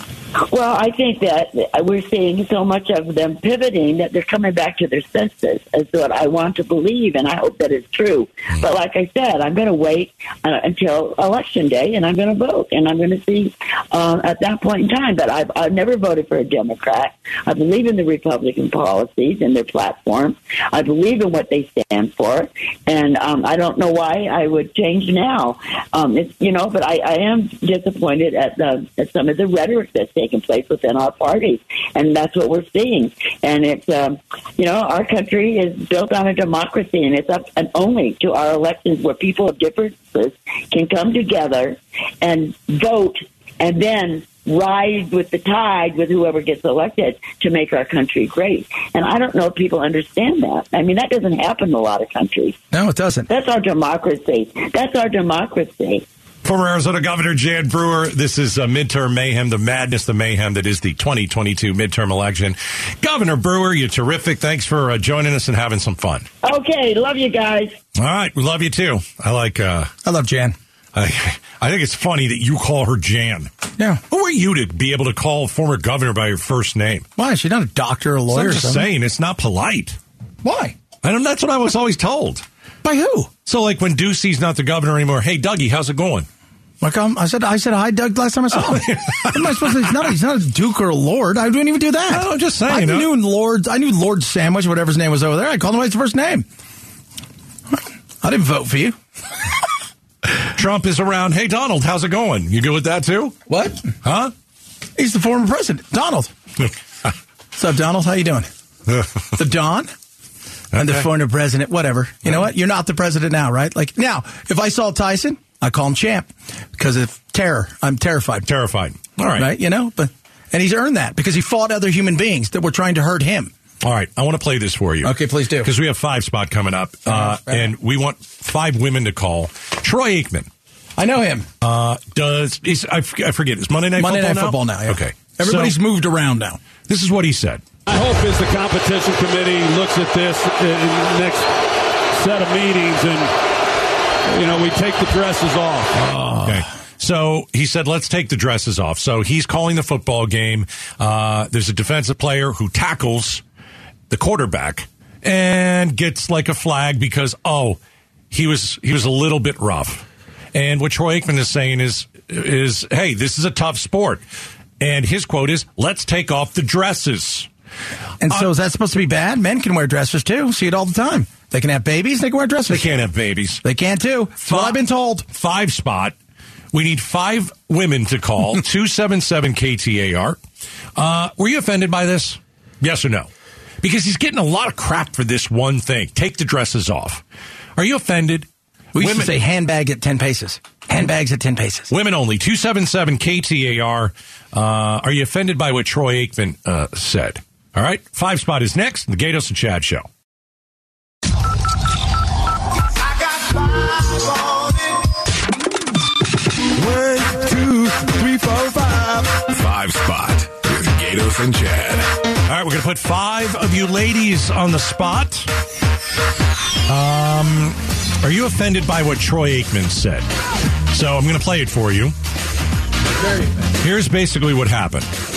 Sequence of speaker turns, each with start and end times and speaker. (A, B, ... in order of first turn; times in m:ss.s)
0:00.4-0:52.6 A
0:52.7-0:53.3 B
0:53.3-0:56.0 A
0:56.4-1:06.3 C
1:06.4-1:07.8 A
1:08.0-1:09.9 C
1:10.0-1:10.6 B
1:10.9-1:13.5 C
1:14.1-1:17.0 C
1:17.2-1:18.9 B
1:18.3-1:20.0 C
1:20.4-1:20.8 B
1:21.0-1:22.4 C
1:22.8-1:23.3 B
1:23.4-1:26.3 C
1:26.8-1:36.4 B
1:28.5-1:30.0 C
1:32.1-1:33.1 C
1:38.2-1:39.0 B
1:40.5-1:43.4 C
1:43.5-1:43.8 B
1:44.0-1:44.3 C
1:45.0-1:46.3 B
1:47.5-1:48.5 B
1:49.4-1:49.9 B
1:50.7-1:51.0 C
1:50.8-1:58.5 B
1:58.4-1:59.5 C
1:59.4-2:03.5 B
2:03.8-2:10.5 C
2:05.0-2:05.7 B
2:07.1-2:07.7 B
2:11.0-2:11.5 B
2:11.6-2:15.8 C
2:14.0-2:16.6 B
2:16.9-2:17.6 C
2:17.8-2:21.5 D
2:22.1-2:23.3 D
2:24.2-2:25.9 D
2:26.0-2:26.6 B
2:26.3-2:33.4 C
2:34.1-2:37.8 C
2:38.3-2:44.2 C
2:44.8-2:47.5 C
2:48.2-2:52.9 B
2:52.7-2:53.6 C
2:53.6-2:55.2 B
2:54.4-2:54.8 C
2:55.3-2:56.1 C
2:56.7-3:00.4 C
3:01.0-3:03.3 C
3:03.8-3:07.2 C
3:07.8-3:09.3 C
3:08.9-3:11.9 B
3:11.9-3:20.1 C
3:27.0-3:28.5 E
3:29.4-3:32.1 E
3:32.5-3:35.5 C
3:36.9-3:40.2 C
3:40.9-3:42.1 C
3:43.8-3:45.1 C